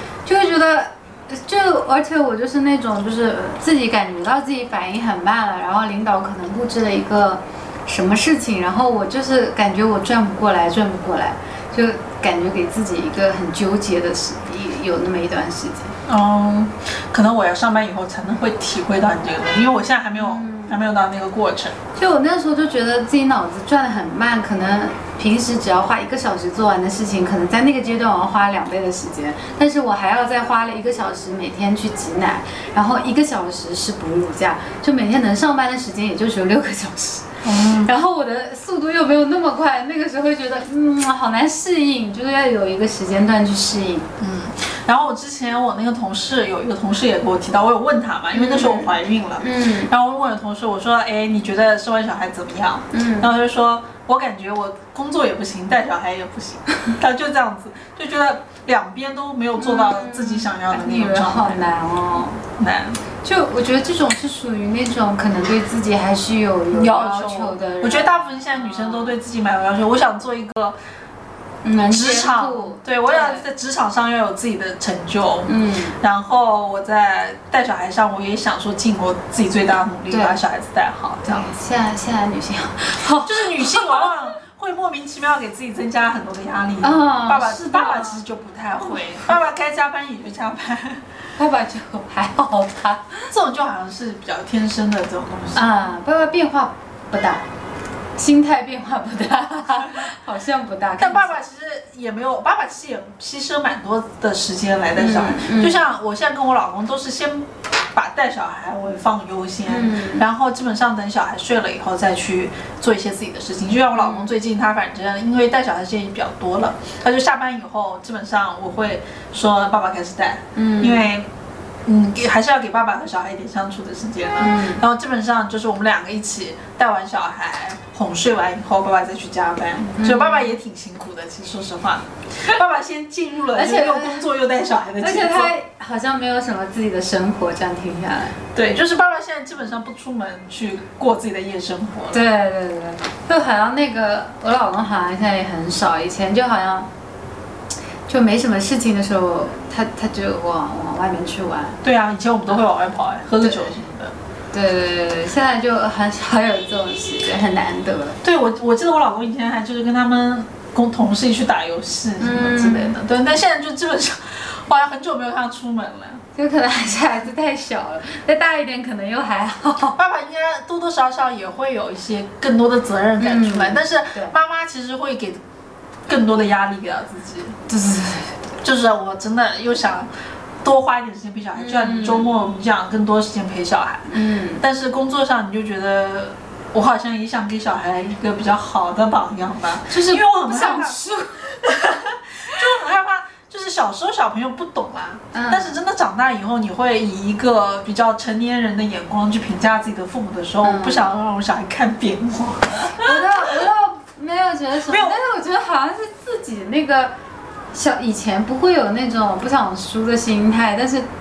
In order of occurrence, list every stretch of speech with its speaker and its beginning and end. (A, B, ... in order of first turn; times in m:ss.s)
0:00.2-0:16.0 A
0:16.0-0:21.8 B
0:20.2-0:20.7 A
0:21.9-0:44.1 A
0:37.4-0:37.9 B
0:44.2-1:01.7 B
0:48.3-0:49.9 A
0:52.9-0:53.3 A
0:59.6-1:02.4 A
1:02.6-1:03.0 B
1:03.2-1:09.2 A
1:06.7-1:10.8 B
1:11.6-1:13.4 A
1:11.9-1:21.5 B
1:15.4-1:16.0 A
1:20.1-1:20.4 A
1:21.2-1:24.3 A
1:23.2-1:31.0 B
1:26.8-1:28.2 A
1:28.8-1:29.3 A
1:31.4-1:33.3 A
1:33.3-1:35.6 B
1:35.5-1:37.5 A
1:38.2-1:41.4 A
1:41.0-2:01.3 B
1:45.0-1:45.8 A
1:49.6-1:50.2 A
1:53.9-1:54.3 A
2:00.5-2:01.1 A
2:01.8-2:15.5 B
2:04.4-2:04.8 A
2:10.0-2:10.6 A
2:13.5-2:14.2 A
2:15.0-2:18.4 A
2:18.5-2:22.2 B
2:22.1-2:26.9 A
2:28.1-2:31.8 A
2:31.8-2:34.1 B
2:33.4-2:33.8 A
2:34.5-2:38.2 A
2:38.2-2:46.2 B
2:42.2-2:43.0 A
2:46.3-2:50.0 A
2:50.0-2:55.4 B
2:53.2-2:54.3 A
2:56.1-2:57.6 B
2:57.7-2:58.4 A
2:58.6-3:00.1 B
3:00.6-3:23.5 B
3:01.6-3:02.3 A
3:04.1-3:04.6 A
3:09.9-3:11.6 A
3:15.3-3:15.8 A
3:20.6-3:21.1 A
3:22.8-3:27.1 A
3:24.8-3:25.2 B
3:27.7-3:31.1 A